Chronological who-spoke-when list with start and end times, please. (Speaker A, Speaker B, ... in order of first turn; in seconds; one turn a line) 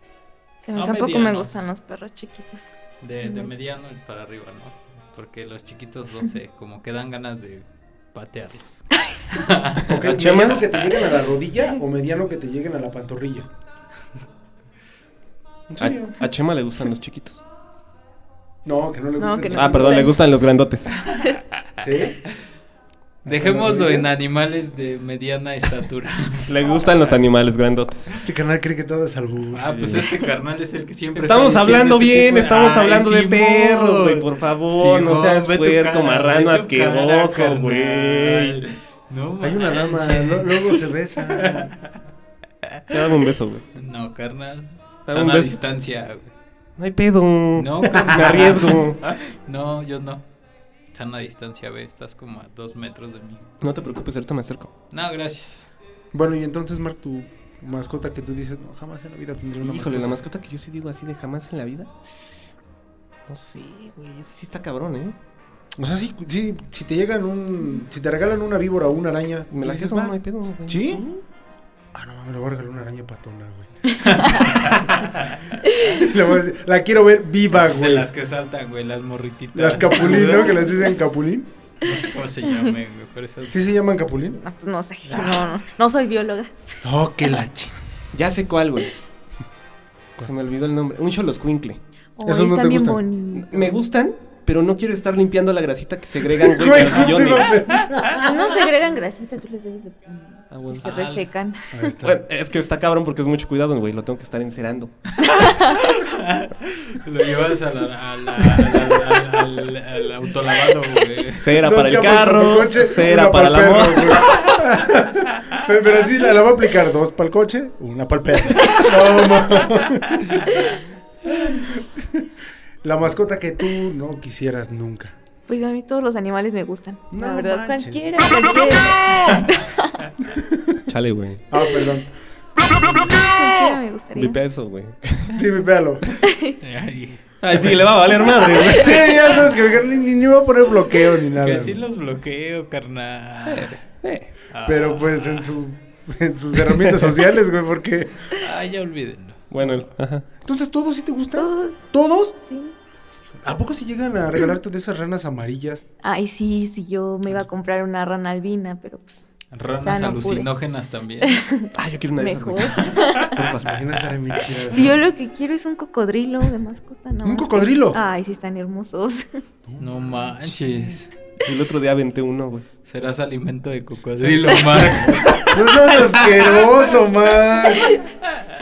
Speaker A: 0.6-3.5
Speaker B: 0.8-1.5
Speaker B: 3.0-9.9
Speaker C: 9.8-10.8
Speaker D: 9.8-13.5
Speaker D: 15.7-16.2
Speaker C: 15.8-17.4
Speaker D: 18.6-20.2
Speaker A: 19.2-20.2
Speaker C: 19.5-20.9
Speaker A: 21.0-21.4
Speaker D: 21.8-22.2
Speaker D: 23.2-24.1
Speaker B: 23.3-26.5
Speaker C: 26.5-28.1
Speaker D: 28.2-30.0
Speaker B: 29.5-41.9
Speaker C: 29.8-30.0
Speaker C: 31.2-38.6
Speaker D: 39.4-41.7
Speaker C: 42.9-43.7
Speaker B: 43.8-46.3
Speaker C: 45.1-45.6
Speaker C: 46.8-49.0
Speaker B: 47.6-50.2
Speaker D: 47.9-48.6
Speaker B: 50.9-53.5
Speaker C: 53.6-54.7
Speaker B: 54.9-55.7
Speaker D: 56.1-60.3
Speaker C: 59.6-61.9
Speaker C: 63.3-65.2
Speaker D: 65.8-71.0
Speaker C: 69.5-71.2
Speaker D: 71.9-73.7
Speaker B: 74.0-75.6
Speaker D: 74.2-75.0
Speaker D: 75.8-78.1
Speaker B: 77.5-80.9
Speaker D: 79.5-81.5
Speaker B: 81.8-83.7
Speaker D: 83.5-84.4
Speaker A: 84.4-86.5
Speaker D: 86.8-87.8
Speaker C: 88.1-88.9
Speaker C: 90.2-91.8
Speaker A: 92.2-93.8
Speaker D: 92.2-93.0
Speaker C: 93.3-97.6
Speaker D: 96.4-98.5
Speaker A: 98.2-101.9
Speaker C: 100.5-100.9
Speaker B: 100.8-101.3
Speaker D: 101.7-102.2
Speaker C: 102.0-105.0
Speaker B: 105.2-111.5
Speaker C: 111.4-114.3
Speaker D: 111.6-120.8
Speaker D: 121.3-122.3
Speaker D: 122.8-125.2
Speaker A: 125.5-129.7
Speaker D: 127.1-128.9
Speaker D: 130.2-130.8
Speaker C: 130.9-131.4
Speaker D: 131.5-133.1
Speaker A: 133.1-134.4
Speaker C: 134.2-135.4
Speaker D: 135.3-136.1
Speaker A: 136.2-136.6
Speaker B: 136.6-137.8
Speaker C: 137.4-139.4
Speaker D: 138.4-141.8
Speaker B: 141.3-143.8
Speaker C: 143.5-144.3
Speaker B: 144.5-145.5
Speaker D: 144.7-148.3
Speaker B: 148.4-149.5
Speaker C: 149.5-150.3
Speaker D: 150.4-152.4
Speaker A: 151.3-151.8
Speaker A: 152.5-152.8
Speaker D: 153.4-155.8
Speaker A: 156.0-159.3
Speaker B: 159.5-161.4
Speaker A: 159.8-160.5
Speaker A: 161.2-163.4
Speaker C: 161.7-163.8
Speaker D: 163.5-165.0
Speaker A: 164.7-169.4
Speaker D: 167.2-168.0
Speaker D: 169.7-171.1
Speaker B: 169.8-171.1
Speaker C: 171.4-172.7
Speaker B: 172.8-175.7
Speaker D: 174.4-178.0